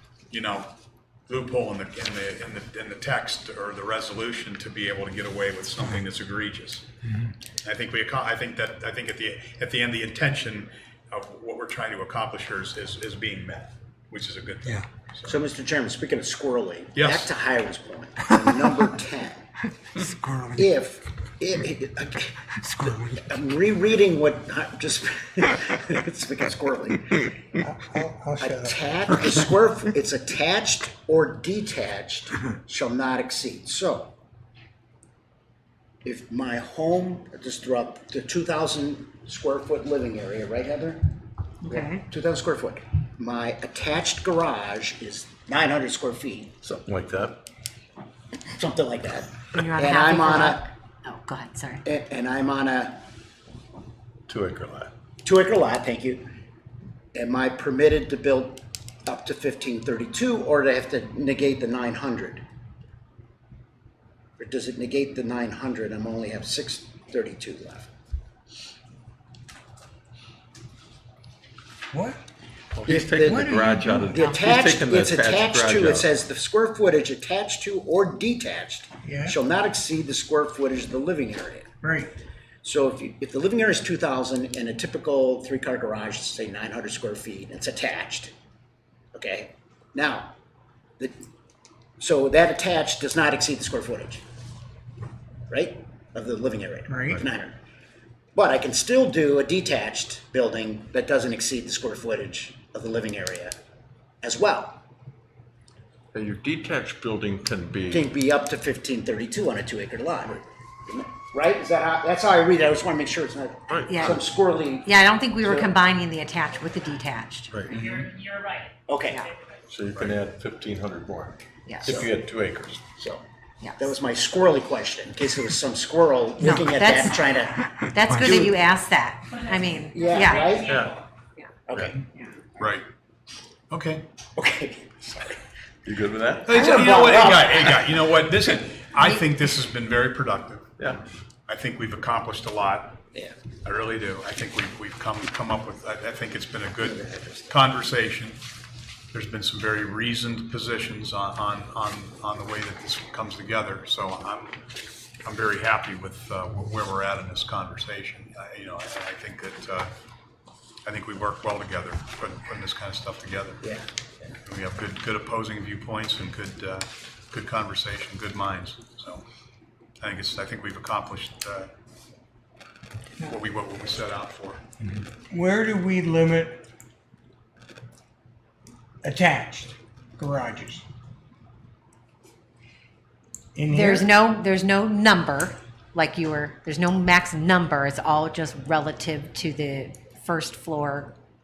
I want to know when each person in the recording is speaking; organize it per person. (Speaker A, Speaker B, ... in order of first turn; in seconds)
Speaker A: 0.3-0.7, 1.3-6.9, 7.6-15.4, 16.9-17.3, 132.6-132.8, 133.7-134.0, 136.5-140.7, 141.5-143.0, 143.6-148.4, 149.1-154.6, 155.2-159.9, 160.8-163.7, 164.4-169.2, 170.0-171.7, 173.2-174.6
Speaker B: 15.2-19.4, 20.5-27.3, 28.4-34.1, 36.0-41.1, 41.6-46.5, 48.5-50.7, 51.8-53.0, 55.2-56.3, 57.1-62.4, 64.4-67.9, 72.9-73.5, 74.1-81.7, 82.6-88.3, 89.1-90.3, 92.0-94.2, 95.5-97.5, 98.3-103.5, 104.2-104.8, 107.9-114.9, 115.4-115.7, 118.9-119.2, 123.0-123.2, 123.8-128.5, 129.9-130.7, 131.7-132.0, 134.4-135.4, 136.5-137.8, 146.8-147.5, 163.6-164.3
Speaker C: 27.6-28.8, 71.9-72.2, 73.2-74.1, 79.0-79.3, 81.8-82.1, 96.9-97.2, 175.3-176.6, 179.0-180.8, 183.5-184.1
Speaker D: 41.6-42.0, 49.5-51.8, 113.9-114.2, 114.8-117.8, 121.7-122.0, 123.6-123.9, 126.4-127.3, 127.8-130.6, 183.7-191.1
Speaker E: 46.6-47.4, 54.3-54.9, 72.7-76.1, 106.1-108.1, 113.7-114.1, 117.5-118.1, 119.7-122.8, 130.6-130.9, 135.8-136.7
Speaker F: 117.7-118.7, 129.3-131.0